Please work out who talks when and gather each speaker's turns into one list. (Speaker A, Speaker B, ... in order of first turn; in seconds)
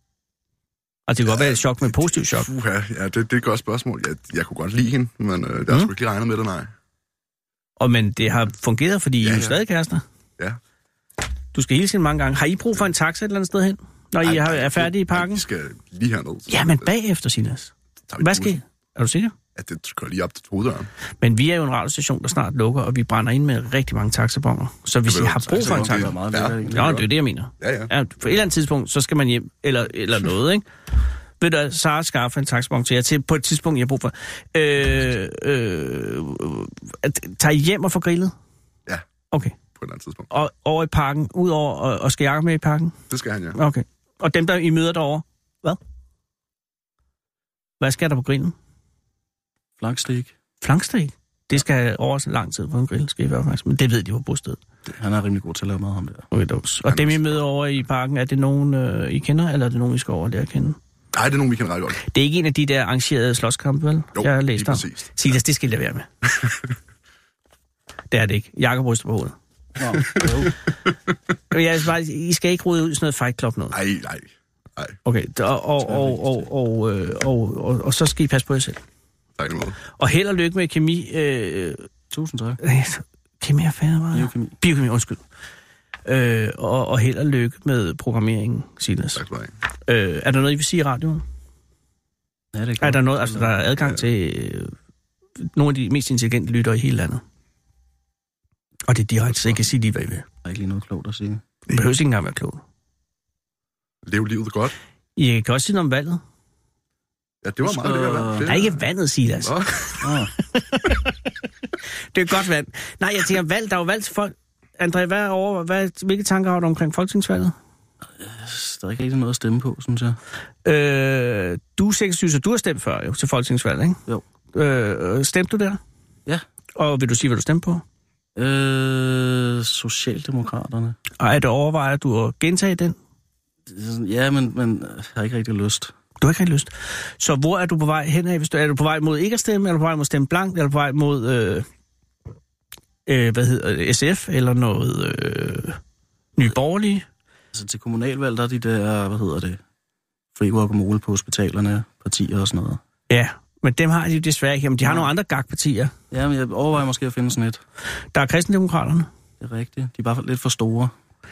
Speaker A: 1.1-2.5, 7.8-10.0, 11.5-15.4, 16.5-19.3, 21.2-26.1, 26.7-30.6, 31.4-38.3, 39.3-39.5, 40.3-42.9, 43.5-45.8, 47.8-48.5, 50.6-54.6, 56.3-60.8, 62.1-66.1, 68.1-69.3, 71.5-73.8, 75.0-78.8, 80.0-81.9, 82.6-85.2, 86.0-89.2, 89.9-91.2, 92.8-94.7, 95.5-97.2, 98.9-100.2, 101.7-102.6, 105.2-106.2, 108.5-111.0, 112.1-117.5, 120.6-124.0, 124.5-125.8, 126.8-127.8, 131.2-132.9, 136.2-141.7, 143.1-145.8, 146.4-147.0, 153.1-155.9, 158.1-159.1
Speaker B: 1.2-6.7, 9.2-9.6, 14.2-16.9, 18.1-18.6, 19.6-20.9, 25.0-27.1, 27.6-27.9, 39.7-40.3, 43.1-43.6, 56.9-57.4, 61.1-62.0, 64.1-65.4, 66.2-66.6, 73.7-75.0, 79.4-79.8, 89.1-89.5, 99.3-99.5, 104.0-104.7, 107.4-108.8, 109.4-110.0
Speaker C: 25.4-27.0, 49.8-50.3, 54.9-56.2, 69.8-70.5, 75.9-76.4, 82.1-82.6, 84.1-84.5, 92.5-93.6, 100.4-101.4, 107.6-108.5, 110.0-110.3, 118.2-120.2, 128.3-131.0, 133.7-135.9, 147.5-149.6, 150.3-152.8, 154.8-155.1, 156.1-157.6, 159.4-160.9